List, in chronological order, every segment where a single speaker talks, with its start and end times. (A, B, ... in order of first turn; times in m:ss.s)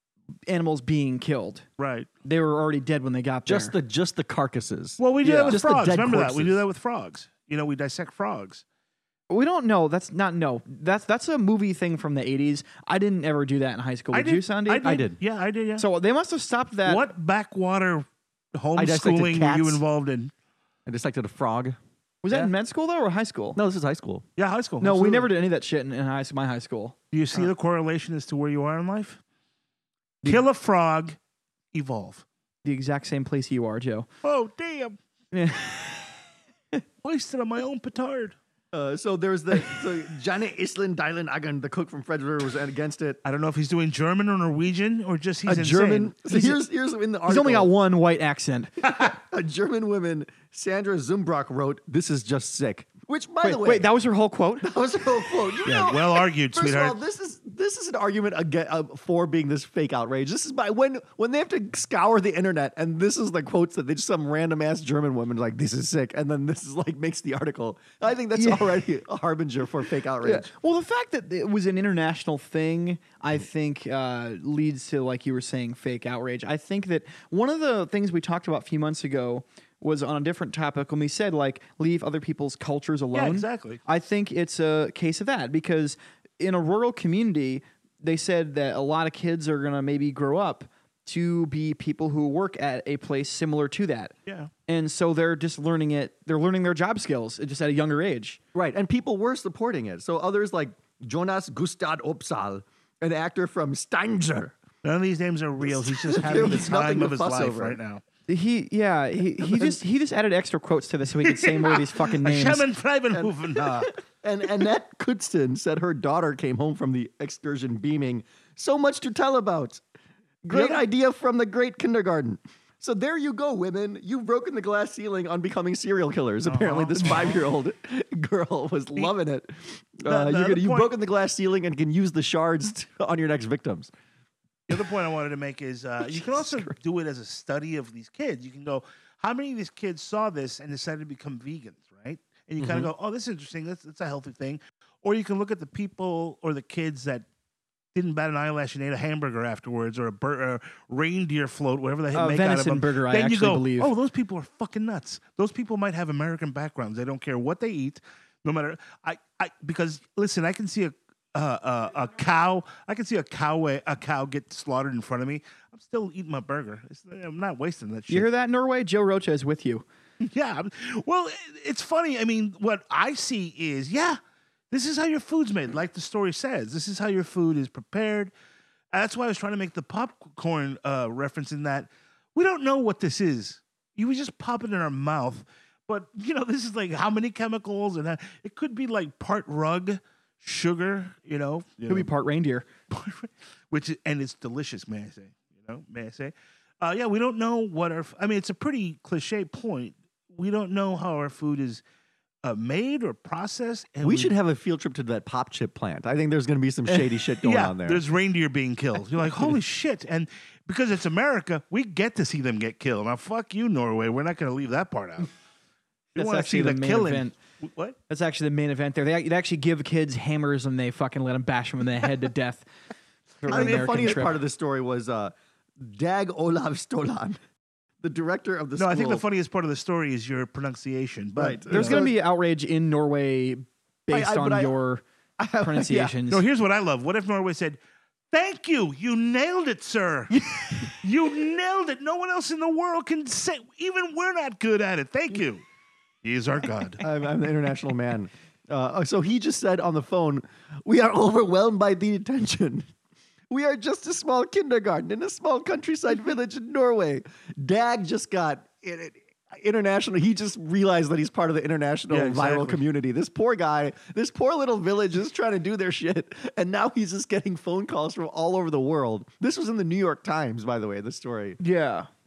0:00.5-0:01.6 A
0:01.8-0:02.1 B
0:02.2-0:03.7 A
0:03.4-0:06.6 C
0:05.0-0:08.6 B
0:05.2-0:05.6 A
0:09.3-0:15.0 A
0:14.1-0:15.8 B
0:14.8-0:15.2 C
0:15.8-0:17.0 A
0:16.8-0:20.3 B
0:18.8-0:19.8 C
0:20.8-0:21.8 C
0:22.2-0:23.6 A
0:23.6-0:24.2 C
0:24.4-0:25.3 B
0:24.8-0:27.0 A
0:27.1-0:29.2 B
0:30.2-0:31.2 B
0:31.7-0:32.2 B
0:32.6-0:34.1 A
0:34.2-0:35.0 B
0:35.3-0:36.1 A
0:37.0-0:38.4 B
0:38.7-0:43.2 C
0:43.2-0:46.1 B
0:45.4-0:47.7 C
0:47.3-0:49.0 A
0:48.8-0:53.9 C
0:53.4-0:54.7 A
0:54.6-1:10.5 C
0:55.6-0:57.0 B
1:08.3-1:08.8 A
1:10.2-1:34.1 A
1:23.1-1:23.8 B
1:34.7-1:38.4 A
1:38.5-1:44.5 C
1:44.8-1:48.0 B
1:45.6-1:47.8 C
1:48.3-1:52.6 A
1:51.2-1:53.9 B
1:53.1-1:59.8 C
2:00.4-2:13.9 C
2:00.5-2:00.8 B
2:06.4-2:07.4 B
2:10.0-2:10.9 B
2:14.7-2:27.2 B
2:22.6-2:22.9 C
2:27.9-2:48.3 B
2:32.1-2:33.9 A
2:48.1-2:49.8 A
2:50.2-2:54.2 B
2:54.7-2:58.3 B
2:58.9-3:12.1 B
3:11.9-3:12.6 A
3:12.9-3:21.8 B
3:22.4-3:24.3 B
3:24.0-3:28.0 C
3:27.4-3:35.3 B
3:36.1-3:38.0 B
3:36.2-3:37.3 A
3:38.1-3:42.6 A
3:43.4-3:44.4 A
3:43.4-3:44.2 B
3:43.5-3:47.4 C
3:48.0-3:49.2 C
3:48.8-3:52.0 B
3:51.4-3:52.1 C
3:51.7-3:55.0 A
3:54.1-3:54.7 C
3:55.4-3:56.1 C
3:55.6-3:56.4 A
3:56.3-3:57.8 B
3:58.3-4:05.6 B
4:00.3-4:01.0 A
4:06.2-4:07.0 B
4:07.0-4:12.9 C
4:13.5-4:31.6 C
4:22.1-4:22.8 B
4:31.6-4:32.1 A